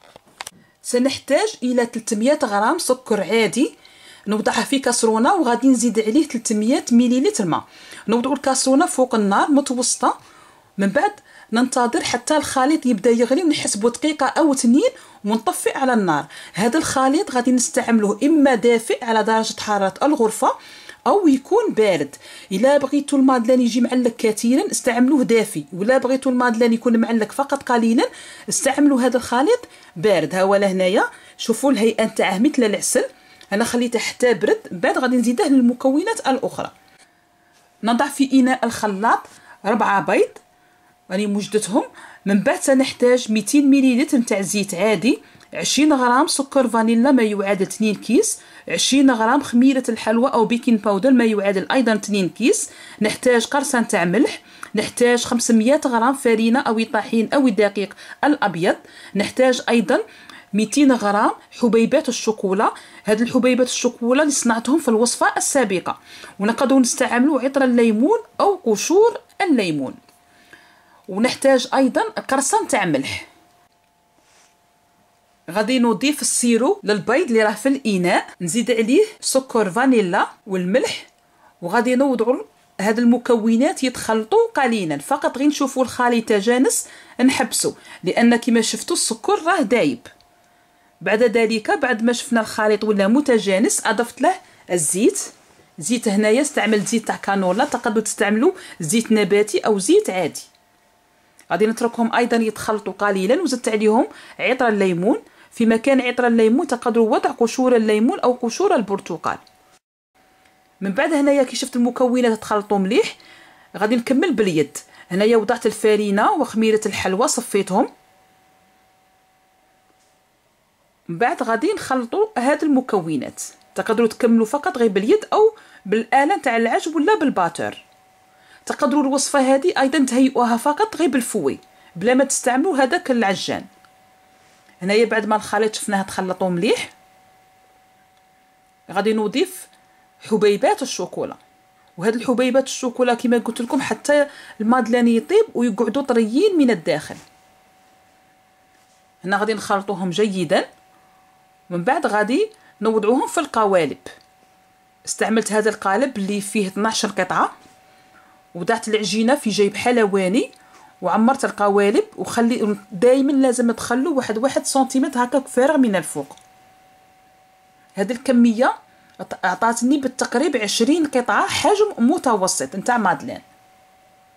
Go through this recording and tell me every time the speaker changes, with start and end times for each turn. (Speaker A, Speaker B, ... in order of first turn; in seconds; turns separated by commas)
Speaker A: 0.8-3.7, Speaker A: 4.3-10.2, Speaker A: 10.8-20.5, Speaker A: 21.1-36.7, Speaker A: 37.8-40.4, Speaker A: 41.1-60.0, Speaker A: 60.5-70.0, Speaker A: 71.1-73.3, Speaker A: 75.5-81.1, Speaker A: 81.6-90.1, Speaker A: 91.0-100.5, Speaker A: 101.5-109.4, Speaker A: 110.8-113.2, Speaker A: 113.8-117.9, Speaker A: 121.1-127.8, Speaker A: 128.7-133.7, Speaker A: 134.8-136.9, Speaker A: 138.9-139.7, Speaker A: 140.2-141.4, Speaker A: 142.0-147.2, Speaker A: 149.2-150.6, Speaker A: 151.7-154.1, Speaker A: 155.1-157.5, Speaker A: 158.5-160.5, Speaker A: 161.0-166.4, Speaker A: 167.9-173.4